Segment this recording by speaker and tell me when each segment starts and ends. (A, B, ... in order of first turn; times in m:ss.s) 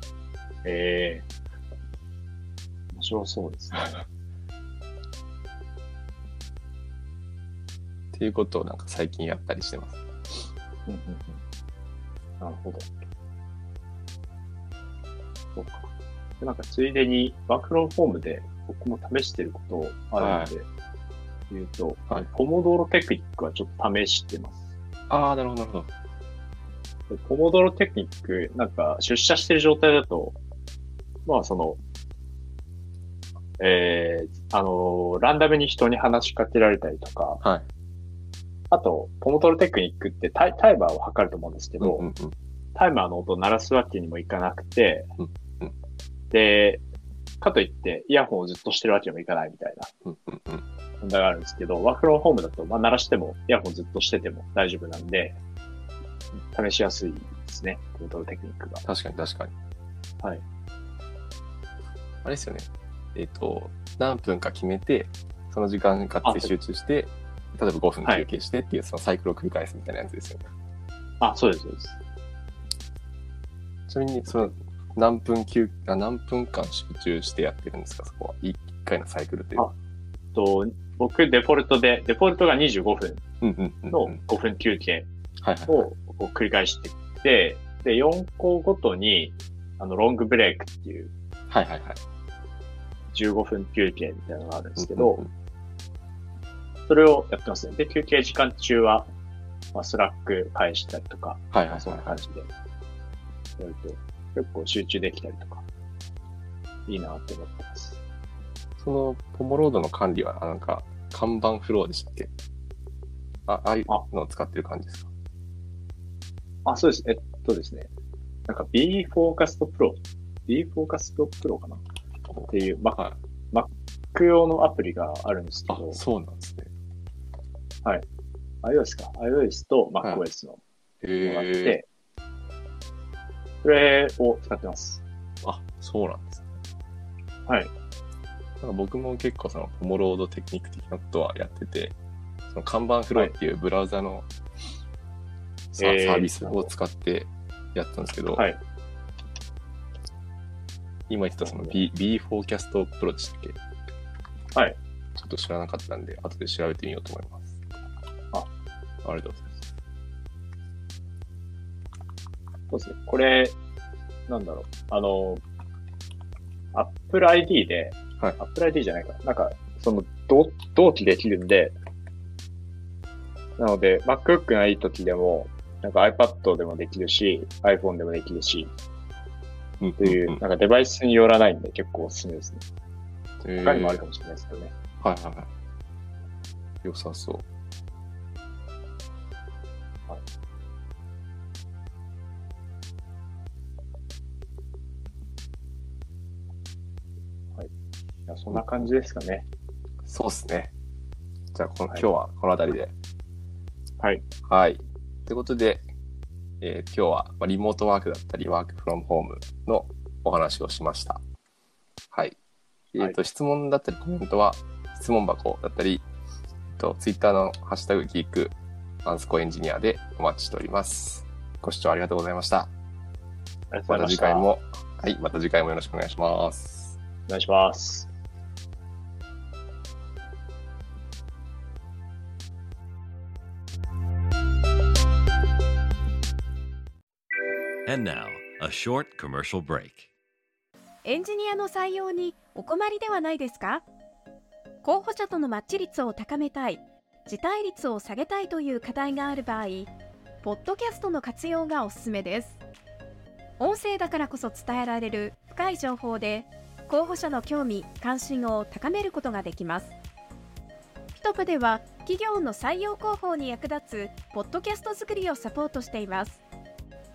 0:00.6-0:01.2 A
0:02.9-0:04.0 A
0:08.1-0:10.0 B
0:10.9-0:11.4 A
0:12.4-0:12.9 A
0:15.6-0:15.9 A
0:16.4-0:20.7 A
0:20.2-0:20.5 B
0:21.5-0:24.7 A
0:25.1-0:25.9 B
0:27.1-0:30.4 A
0:31.3-0:31.8 A
0:33.6-0:37.4 A
0:38.7-0:42.1 A
0:41.8-0:42.4 B
0:42.8-0:45.1 A
0:45.2-0:45.7 B
0:46.3-0:46.8 A
0:47.4-0:49.9 A
0:50.0-0:50.6 B
0:51.0-0:55.4 A
0:56.5-0:58.8 A
0:58.8-0:59.5 B
1:02.2-1:10.5 B
1:06.2-1:06.5 A
1:11.2-1:12.0 A
1:13.9-1:19.7 B
1:20.4-1:23.2 A
1:23.4-1:24.2 B
1:23.9-1:25.1 A
1:25.4-1:25.9 B
1:25.7-1:31.1 A
1:31.5-1:32.0 B
1:33.1-1:35.2 A
1:34.8-1:35.3 B
1:36.9-1:39.1 A
1:39.7-1:42.5 A
1:41.5-1:42.2 B
1:43.6-1:45.6 A
1:46.9-1:48.0 A
1:48.8-1:52.3 B
1:53.5-1:55.1 B
1:56.7-1:57.9 A
1:58.5-2:01.8 A
2:02.3-2:03.2 B
2:02.5-2:06.0 A
2:05.7-2:06.7 B
2:08.6-2:10.6 A
2:11.0-2:11.8 B
2:11.2-2:11.9 A
2:13.6-2:15.0 A
2:15.4-2:16.5 B
2:18.6-2:22.0 B
2:22.5-2:24.3 B
2:25.8-2:26.7 A
2:25.8-2:28.4 B
2:31.1-2:33.6 B
2:35.2-2:37.6 B
2:39.0-2:39.6 B
2:42.7-2:43.6 A
2:44.3-2:45.4 A
2:46.7-2:51.8 A
2:53.6-2:58.7 A
2:59.8-3:00.4 B
3:00.0-3:02.6 A
3:03.4-3:04.0 B
3:03.6-3:04.7 A
3:05.0-3:05.5 B
3:06.8-3:07.4 B
3:18.3-3:19.4 A
3:20.1-3:20.7 B
3:21.5-3:22.9 B
3:24.5-3:25.8 B
3:26.6-3:31.2 B
3:32.1-3:32.4 B
3:33.0-3:36.0 B
3:36.7-3:42.7 B
3:43.7-3:44.5 A
3:43.9-3:47.0 B
3:47.3-3:48.1 A
3:57.9-4:00.1 C
4:01.0-4:03.8 D
4:04.8-4:09.9 D
4:10.4-4:12.6 D
4:13.6-4:20.0 D
4:21.1-4:26.4 D